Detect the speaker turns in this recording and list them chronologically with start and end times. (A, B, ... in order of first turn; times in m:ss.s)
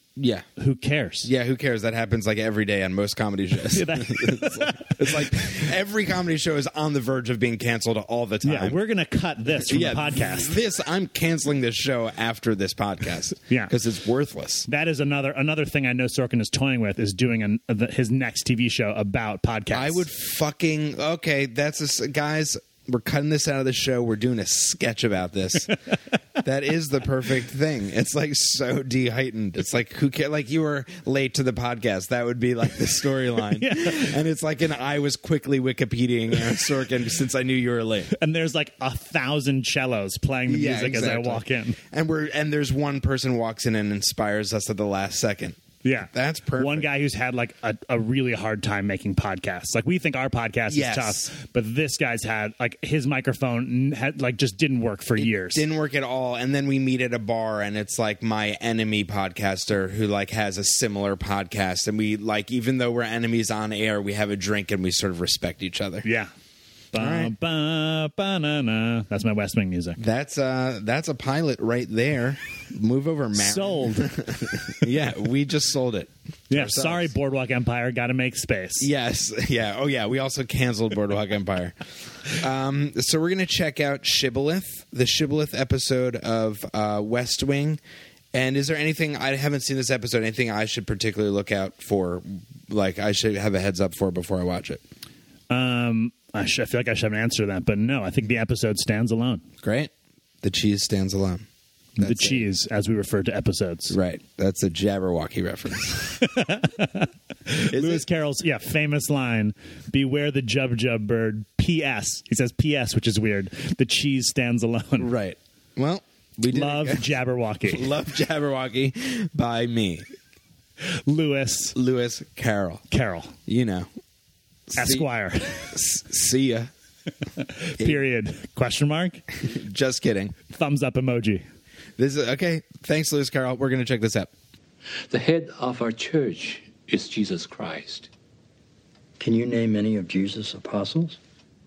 0:00.2-0:00.5 A
0:00.6-0:01.3 B
0:01.2-0:08.8 A
0:03.7-0:05.5 B
0:08.4-0:10.6 B
0:09.5-0:14.7 A
0:14.7-0:20.0 B
0:19.7-0:25.8 A
0:26.4-0:38.1 A
0:33.6-0:34.1 B
0:38.1-0:41.8 B
0:40.5-0:46.9 A
0:45.8-0:55.6 B
0:50.7-0:51.3 A
0:55.2-1:06.1 A
1:06.0-1:06.3 B
1:06.9-1:10.0 B
1:06.9-1:07.3 A
1:10.0-1:17.1 A
1:13.4-1:14.1 B
1:16.5-1:18.9 B
1:18.8-1:27.8 A
1:28.3-1:34.8 A
1:35.5-1:39.4 B
1:39.6-1:39.9 A
1:40.4-1:41.5 A
1:42.0-1:44.0 B
1:42.0-1:42.5 A
1:43.9-1:46.2 A
1:46.2-1:55.1 B
1:47.7-1:48.0 A
1:55.0-1:57.1 A
1:56.5-1:57.9 B
1:57.6-2:00.0 A
2:01.1-2:01.8 B
2:01.8-2:02.8 A
2:02.9-2:03.3 B
2:03.5-2:03.9 A
2:04.7-2:05.1 A
2:04.8-2:05.8 B
2:05.6-2:06.7 A
2:07.4-2:09.2 B
2:09.4-2:10.4 A
2:10.5-2:11.4 B
2:12.0-2:14.3 A
2:15.1-2:18.1 C
2:19.2-2:21.2 D